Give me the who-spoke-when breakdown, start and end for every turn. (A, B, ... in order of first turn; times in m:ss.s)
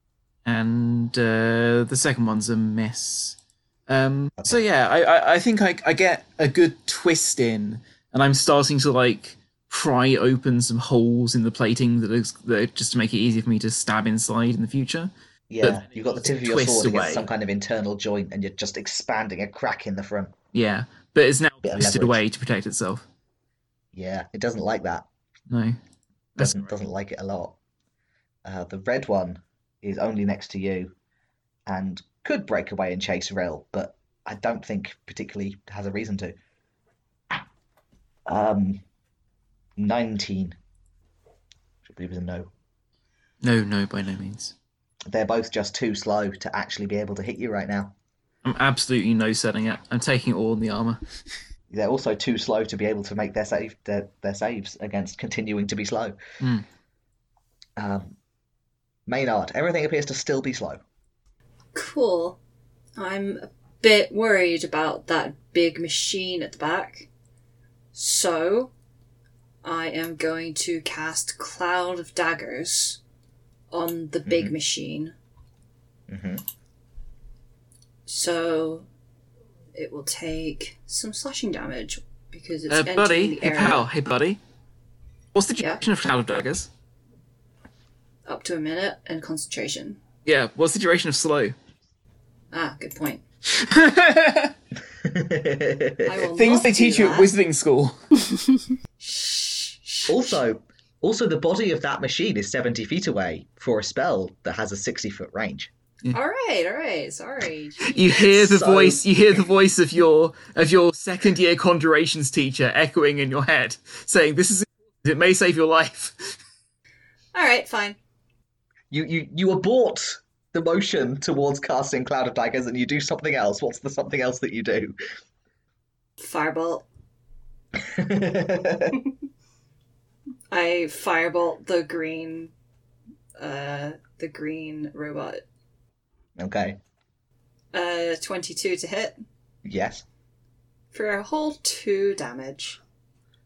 0:00.4-0:17.3 A
0:15.5-0:20.3 B
0:20.5-0:23.0 A
0:21.6-0:22.2 B
0:23.9-0:25.1 B
0:25.5-0:25.8 A
0:26.4-0:26.7 A
0:26.4-0:27.6 B
0:28.4-0:30.9 B
0:31.7-0:36.4 B
0:38.3-0:38.8 B
0:39.8-0:40.6 B
0:41.8-0:42.5 B
0:43.4-0:44.6 A
0:45.1-0:47.9 B
0:48.4-0:51.0 A
0:51.7-0:56.2 B
0:56.4-0:56.6 A
0:57.8-0:58.2 B
0:59.1-1:00.8 B
1:01.7-1:02.4 C
1:03.0-1:07.1 C
1:07.9-1:08.7 C
1:09.6-1:13.0 C
1:13.7-1:15.1 C
1:14.3-1:14.5 B
1:16.1-1:16.4 B
1:18.1-1:18.9 C
1:19.7-1:23.9 C
1:22.7-1:24.4 A
1:25.3-1:26.7 A
1:28.2-1:30.0 C
1:30.2-1:31.6 A
1:32.5-1:33.2 C
1:33.5-1:34.6 A
1:35.0-1:36.1 B
1:36.0-1:37.3 C
1:36.3-1:38.0 A
1:39.0-1:40.4 C
1:40.1-1:45.7 B
1:46.1-1:48.4 C
1:47.9-1:56.4 A
1:48.4-1:49.0 B
1:57.3-1:58.0 C
1:58.9-2:05.0 B
2:06.2-2:06.8 C
2:07.8-2:09.0 B
2:10.5-2:12.5 C
2:13.4-2:15.4 C
2:16.4-2:16.8 B
2:17.7-2:19.2 C
2:19.6-2:20.0 B
2:20.9-2:22.8 C